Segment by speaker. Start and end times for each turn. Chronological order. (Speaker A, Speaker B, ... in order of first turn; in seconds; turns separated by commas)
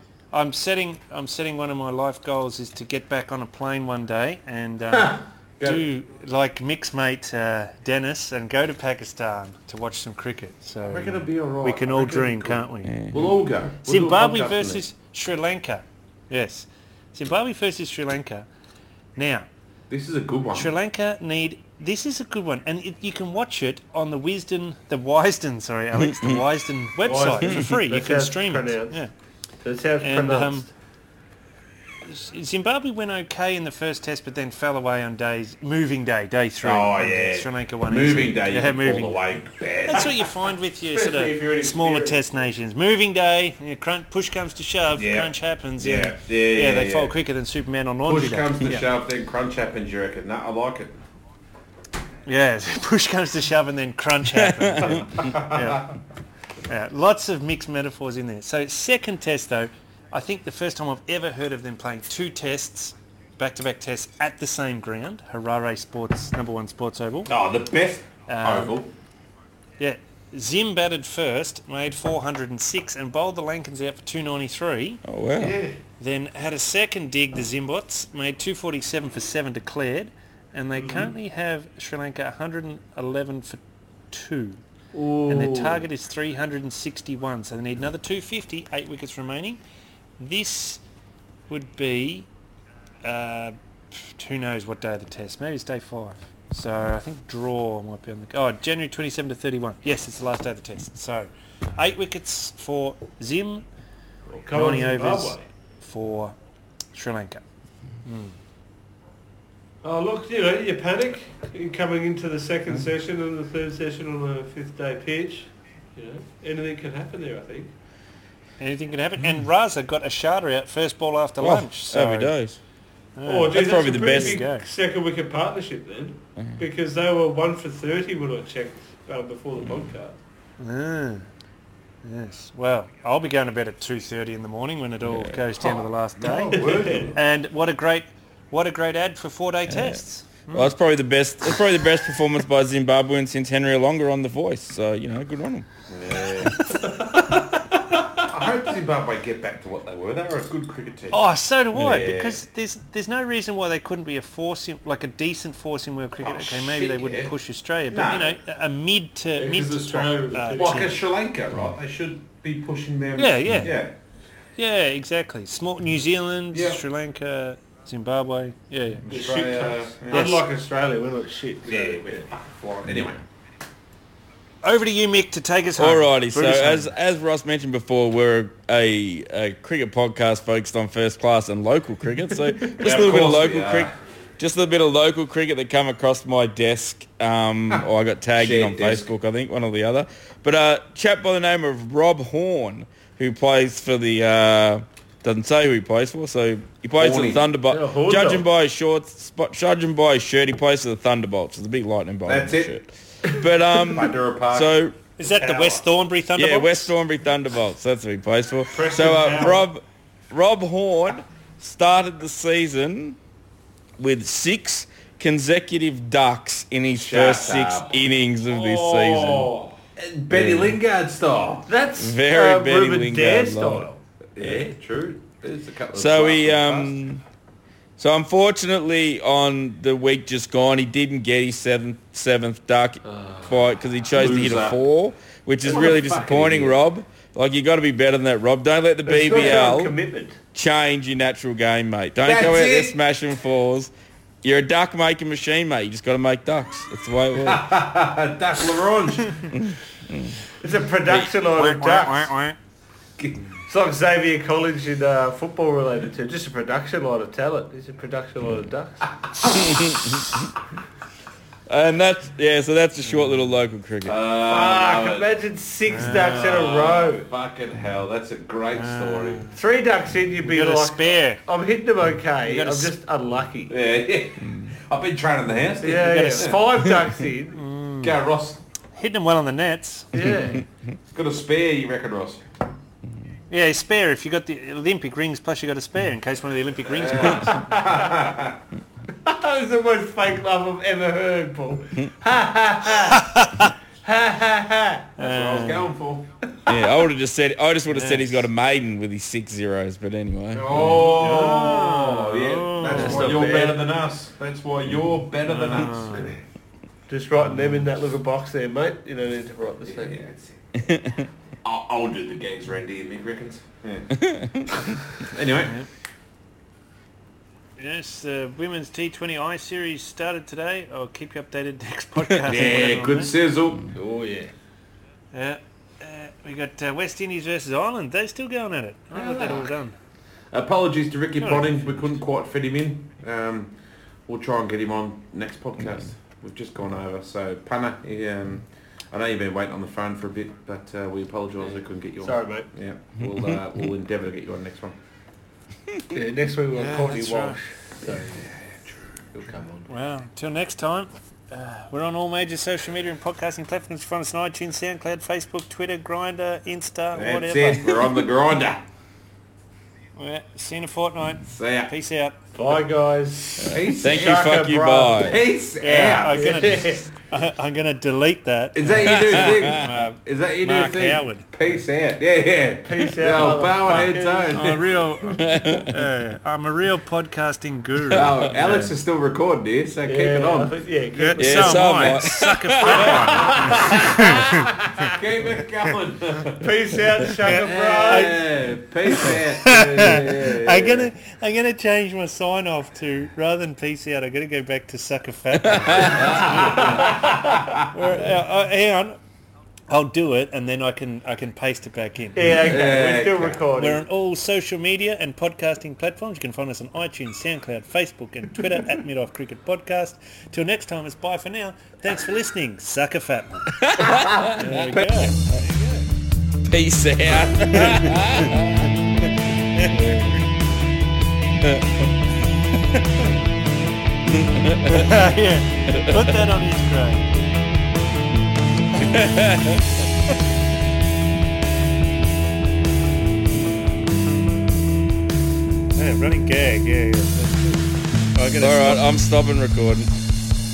Speaker A: 0.3-13.0, Speaker B: 4.9-5.8, Speaker B: 10.8-14.8, Speaker C: 12.9-13.3, Speaker A: 13.8-18.5, Speaker A: 19.2-19.5, Speaker B: 19.9-20.7, Speaker A: 20.5-29.1, Speaker C: 26.0-26.4, Speaker D: 27.0-29.0, Speaker D: 29.6-30.7, Speaker A: 30.0-30.7, Speaker A: 32.1-39.3, Speaker B: 36.6-40.2, Speaker A: 39.8-48.9, Speaker D: 40.9-42.2, Speaker B: 44.9-47.2, Speaker B: 48.1-51.0, Speaker A: 52.3-55.9, Speaker C: 54.6-54.9, Speaker B: 55.1-55.9, Speaker A: 56.7-67.3, Speaker B: 67.3-68.9, Speaker A: 68.3-68.8, Speaker A: 69.8-75.0, Speaker C: 75.1-75.6, Speaker D: 75.4-75.8, Speaker A: 76.0-84.6, Speaker B: 84.9-85.8, Speaker A: 85.3-89.6, Speaker A: 90.2-90.8, Speaker A: 91.5-92.3, Speaker A: 93.0-103.6, Speaker D: 104.3-105.5, Speaker A: 104.5-106.3, Speaker A: 106.9-107.4, Speaker A: 108.0-108.4, Speaker D: 109.8-117.7, Speaker A: 118.6-122.3, Speaker C: 121.4-122.6, Speaker A: 123.2-124.7, Speaker D: 123.2-130.2, Speaker C: 123.5-124.4, Speaker A: 130.6-131.3, Speaker A: 132.0-140.7, Speaker C: 135.1-135.4, Speaker B: 135.6-137.2, Speaker D: 136.6-137.2, Speaker C: 139.7-140.0, Speaker C: 140.5-145.7, Speaker B: 145.9-146.8, Speaker B: 148.1-151.2, Speaker A: 151.1-161.0, Speaker B: 151.7-152.4, Speaker B: 156.2-157.3, Speaker B: 157.9-158.4, Speaker D: 159.4-161.0, Speaker B: 160.5-163.9, Speaker A: 163.2-163.8, Speaker A: 164.6-169.1, Speaker B: 166.5-166.8, Speaker B: 169.1-170.4, Speaker D: 169.1-172.3, Speaker A: 170.1-170.4, Speaker B: 171.6-173.2, Speaker A: 174.6-176.9, Speaker C: 175.8-205.0, Speaker B: 182.8-183.9, Speaker B: 188.4-189.1, Speaker B: 197.0-197.6, Speaker D: 197.7-198.4, Speaker B: 202.3-202.8, Speaker B: 203.8-204.8, Speaker A: 205.2-206.9, Speaker D: 205.4-205.8, Speaker C: 206.4-213.2, Speaker D: 208.7-209.7, Speaker C: 214.0-219.5, Speaker B: 216.9-218.0, Speaker D: 218.4-219.8, Speaker B: 220.0-221.7, Speaker C: 220.3-220.7, Speaker D: 221.7-224.0, Speaker C: 222.0-223.9, Speaker B: 224.4-227.0, Speaker C: 225.9-227.2, Speaker C: 228.0-240.0, Speaker B: 234.1-234.8, Speaker B: 235.6-236.8, Speaker D: 239.1-240.4, Speaker C: 240.5-243.9, Speaker B: 242.2-243.0, Speaker C: 244.4-247.7, Speaker B: 247.4-249.5, Speaker C: 249.5-250.3, Speaker D: 250.6-252.3, Speaker A: 251.5-252.6, Speaker D: 253.7-259.1, Speaker C: 259.4-260.5, Speaker C: 261.7-264.2, Speaker B: 264.1-265.3, Speaker D: 264.5-267.3, Speaker A: 265.9-266.7, Speaker B: 266.0-269.5, Speaker A: 268.7-269.6, Speaker D: 269.5-273.8, Speaker A: 270.4-271.4, Speaker A: 272.4-272.9, Speaker B: 273.7-276.6, Speaker D: 275.8-277.6, Speaker A: 276.0-276.6, Speaker A: 277.5-278.2, Speaker B: 278.0-278.6, Speaker A: 278.9-280.5, Speaker D: 280.1-280.6, Speaker B: 281.1-282.4, Speaker A: 283.5-287.6, Speaker B: 286.9-288.6, Speaker D: 287.2-288.2, Speaker D: 289.2-295.1, Speaker A: 293.1-293.7, Speaker B: 295.2-296.3, Speaker A: 295.2-295.9, Speaker C: 296.7-300.9, Speaker A: 297.9-298.5, Speaker B: 300.5-306.4, Speaker A: 300.8-303.4, Speaker D: 302.9-303.9, Speaker A: 305.4-306.4, Speaker D: 307.1-310.2, Speaker B: 309.9-310.6, Speaker C: 310.8-311.3, Speaker B: 311.6-314.2, Speaker C: 314.2-315.0, Speaker B: 315.2-315.8, Speaker A: 315.6-315.9, Speaker A: 317.8-323.4, Speaker B: 322.4-323.9, Speaker D: 323.9-324.5, Speaker A: 325.3-329.9, Speaker B: 329.1-329.7, Speaker B: 330.5-333.8, Speaker A: 331.4-332.1, Speaker B: 334.3-345.0, Speaker D: 342.2-342.7, Speaker C: 343.2-343.6, Speaker D: 346.1-348.5, Speaker A: 346.8-347.6, Speaker B: 348.2-349.7, Speaker D: 349.5-349.9, Speaker A: 349.9-358.2, Speaker B: 357.1-358.9, Speaker A: 360.2-362.4, Speaker B: 361.5-361.9, Speaker D: 362.6-365.2, Speaker B: 363.6-366.8, Speaker C: 363.7-365.4, Speaker A: 365.8-371.5, Speaker D: 366.3-367.1, Speaker B: 368.7-375.0, Speaker C: 369.1-369.8, Speaker D: 372.9-374.7, Speaker A: 374.5-378.3, Speaker C: 375.4-375.9, Speaker B: 378.1-380.7, Speaker C: 378.2-378.9, Speaker D: 380.1-382.2, Speaker A: 381.1-384.7, Speaker C: 381.4-383.1, Speaker D: 382.8-385.2, Speaker B: 382.9-386.7, Speaker D: 386.5-388.4, Speaker A: 387.4-388.4, Speaker B: 387.4-391.1, Speaker A: 389.1-399.2, Speaker C: 395.6-396.5, Speaker B: 396.0-397.9, Speaker D: 396.3-397.2, Speaker A: 399.9-402.6, Speaker D: 402.4-404.1, Speaker B: 402.6-403.6, Speaker A: 403.8-413.7, Speaker C: 413.7-415.6, Speaker A: 414.4-415.4, Speaker C: 416.6-418.9, Speaker A: 417.7-418.5, Speaker A: 419.2-420.3, Speaker C: 419.9-420.4, Speaker C: 424.3-425.1, Speaker A: 424.8-427.3, Speaker C: 425.9-426.3, Speaker C: 428.9-429.8, Speaker A: 435.9-439.1, Speaker C: 438.6-440.1